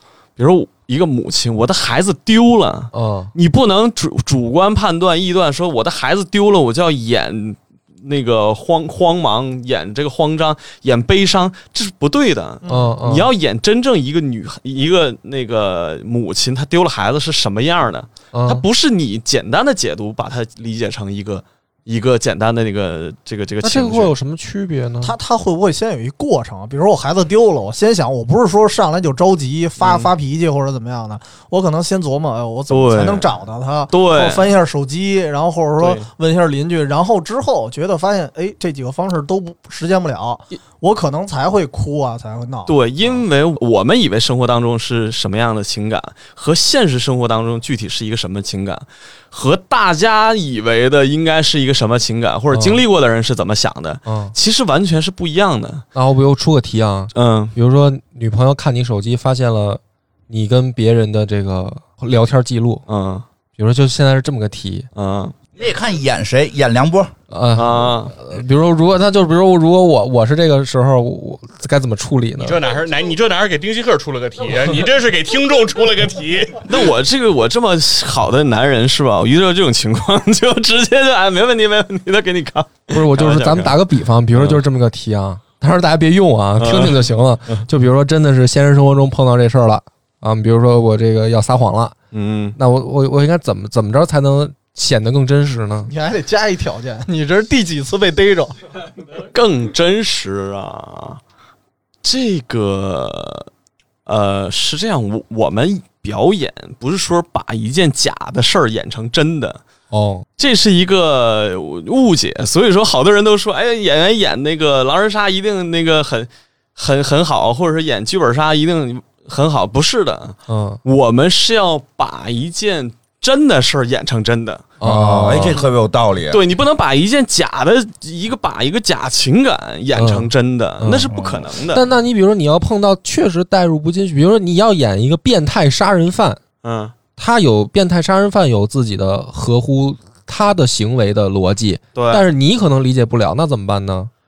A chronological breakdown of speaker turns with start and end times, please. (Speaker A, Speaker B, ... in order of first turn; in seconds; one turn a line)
Speaker A: 0.4-24.1
Speaker B: 2.9-3.3
Speaker C: 12.6-13.0
Speaker B: 12.7-13.3
Speaker B: 18.3-18.6
Speaker B: 23.6-25.1
Speaker C: 25.0-42.8
Speaker A: 29.8-30.1
Speaker A: 32.7-33.4
Speaker A: 33.9-34.6
Speaker A: 35.8-36.1
Speaker A: 42.7-55.9
Speaker B: 52.5-52.8
Speaker B: 54.1-54.3
Speaker B: 56.0-62.9
Speaker A: 57.1-57.5
Speaker A: 62.9-63.3
Speaker B: 63.6-64.9
Speaker A: 65.0-65.3
Speaker D: 65.6-67.1
Speaker B: 67.3-72.6
Speaker A: 67.5-68.2
Speaker E: 72.4-76.9
Speaker A: 76.7-83.8
Speaker B: 82.9-92.0
Speaker A: 84.3-84.6
Speaker A: 86.6-87.7
Speaker A: 92.1-92.6
Speaker B: 92.6-95.9
Speaker C: 95.9-98.6
Speaker A: 99.1-101.2
Speaker A: 102.0-103.5
Speaker A: 104.1-109.6
Speaker B: 109.9-110.3
Speaker A: 110.4-124.8
Speaker B: 120.5-120.8
Speaker B: 124.8-125.6
Speaker D: 124.8-126.4
Speaker A: 126.3-131.8
Speaker B: 129.9-130.3
Speaker B: 130.8-131.1
Speaker D: 131.1-131.5
Speaker B: 131.7-136.4
Speaker A: 136.6-136.9
Speaker B: 137.2-144.1
Speaker A: 141.9-142.2